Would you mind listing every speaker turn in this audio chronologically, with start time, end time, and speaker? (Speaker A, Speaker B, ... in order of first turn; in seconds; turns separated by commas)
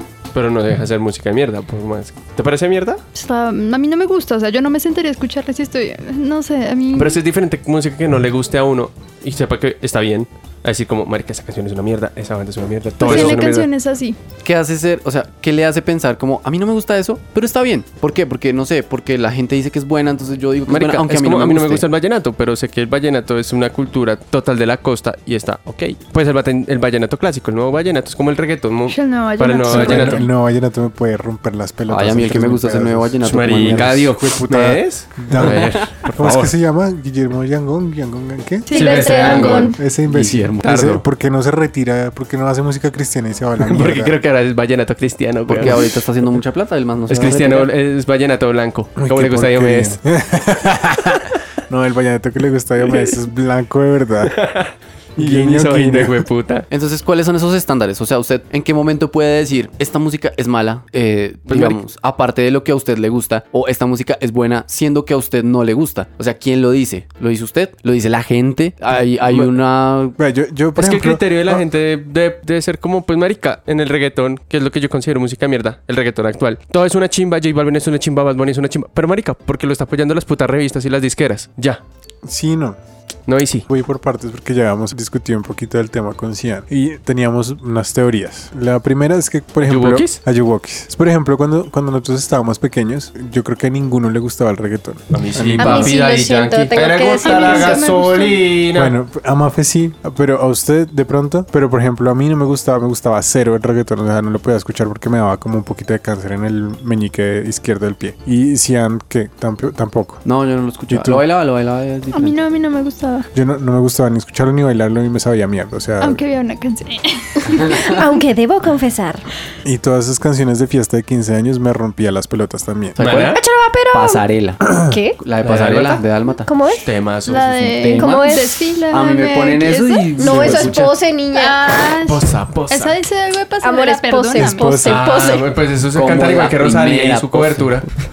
Speaker A: 0.3-3.0, Speaker B: 3.1-7.2, Speaker A: 6.9-13.7, Speaker C: 13.0-13.4, Speaker B: 13.0-14.2, Speaker C: 14.4-21.8, Speaker A: 20.7-30.2, Speaker B: 28.9-30.3, Speaker D: 29.7-38.8, Speaker C: 31.9-34.2, Speaker A: 33.2-36.5, Speaker C: 35.4-35.9, Speaker B: 38.7-39.8, Speaker A: 38.7-39.8, Speaker E: 38.7-39.8, Speaker C: 39.1-41.0, Speaker D: 39.7-44.2, Speaker A: 40.6-41.0, Speaker A: 43.6-45.9, Speaker C: 45.5-47.7, Speaker A: 47.1-50.0, Speaker D: 49.0-54.3, Speaker A: 54.2-56.7, Speaker D: 55.2-56.2, Speaker C: 56.7-70.2, Speaker A: 61.5-61.8, Speaker D: 70.2-71.6, Speaker A: 70.8-81.8, Speaker D: 82.2-82.8, Speaker A: 83.3-83.6, Speaker D: 83.7-96.0, Speaker A: 89.6-90.2, Speaker A: 95.1-98.9, Speaker E: 95.6-97.8, Speaker B: 96.9-98.5, Speaker D: 98.7-110.2, Speaker C: 110.2-112.4, Speaker D: 110.9-111.2, Speaker B: 112.1-113.3, Speaker D: 113.3-116.2, Speaker B: 116.0-118.0, Speaker E: 117.4-119.2, Speaker C: 117.5-117.8, Speaker D: 119.6-123.0, Speaker C: 122.9-124.6, Speaker A: 123.0-123.4, Speaker E: 123.3-124.2, Speaker D: 124.7-124.9, Speaker E: 124.8-125.2, Speaker C: 125.2-126.5, Speaker A: 125.4-126.0, Speaker E: 126.4-126.9, Speaker A: 126.8-127.6, Speaker B: 127.2-130.7, Speaker C: 127.6-130.9, Speaker E: 128.0-128.6, Speaker E: 130.2-131.6, Speaker B: 131.3-134.9, Speaker A: 132.0-133.0, Speaker E: 133.6-135.5, Speaker D: 134.4-135.2, Speaker A: 134.8-137.9, Speaker C: 135.9-137.8